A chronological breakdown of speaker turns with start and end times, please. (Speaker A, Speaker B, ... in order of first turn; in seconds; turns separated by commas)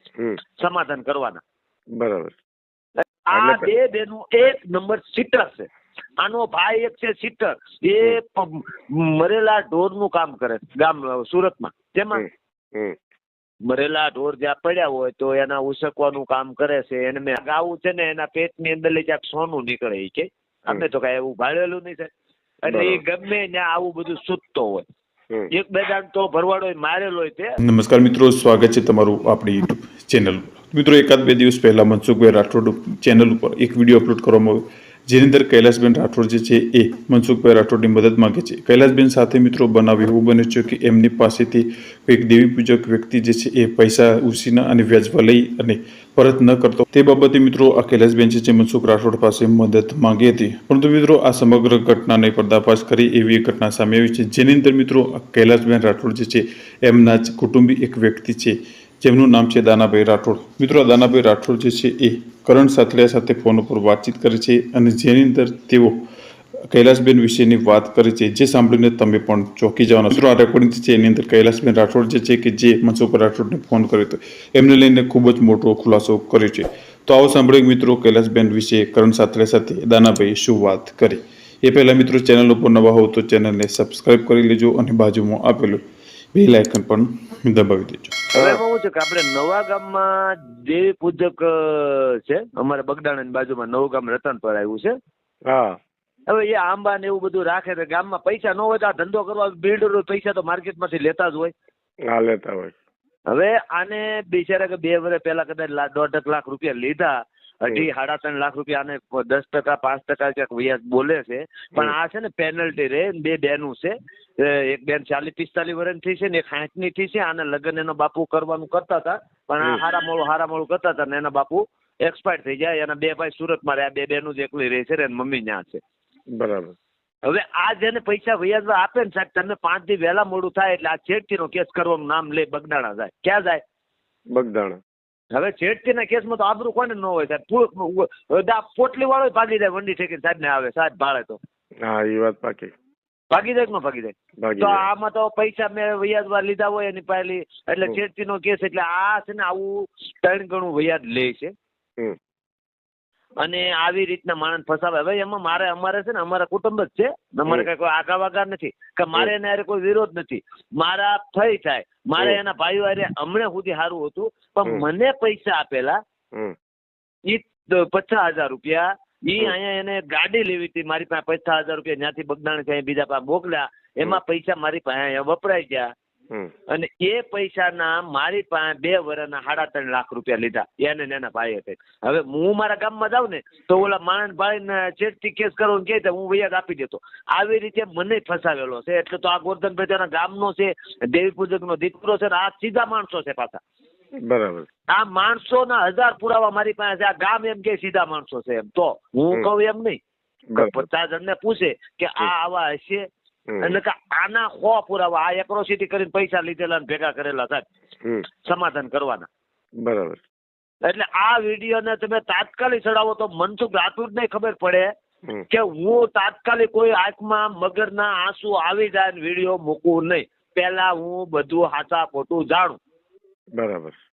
Speaker A: 0.6-1.4, Speaker B: 2.0-2.3, Speaker A: 3.3-5.7, Speaker B: 3.3-3.7, Speaker A: 6.2-12.2, Speaker B: 12.2-12.9, Speaker A: 13.6-22.1, Speaker A: 22.6-24.8, Speaker B: 22.7-23.0, Speaker A: 25.5-27.6, Speaker C: 27.6-66.0, Speaker C: 66.7-85.8, Speaker C: 86.3-88.2, Speaker A: 88.3-94.9, Speaker B: 95.5-95.8, Speaker A: 96.3-101.5, Speaker B: 102.1-102.7, Speaker A: 103.3-125.8, Speaker B: 126.4-126.7, Speaker A: 127.2-133.6, Speaker B: 134.3-134.8, Speaker A: 135.3-141.4, Speaker B: 141.8-142.7, Speaker A: 143.3-151.5, Speaker B: 144.4-144.8, Speaker A: 153.4-166.0, Speaker A: 167.2-175.9, Speaker A: 176.7-193.6, Speaker B: 194.3-194.7, Speaker A: 194.9-200.0, Speaker B: 200.5-200.8, Speaker A: 200.6-203.0, Speaker A: 203.6-207.7, Speaker A: 208.4-209.3, Speaker B: 209.8-210.2, Speaker A: 210.8-214.9, Speaker A: 215.5-222.8, Speaker B: 223.6-223.9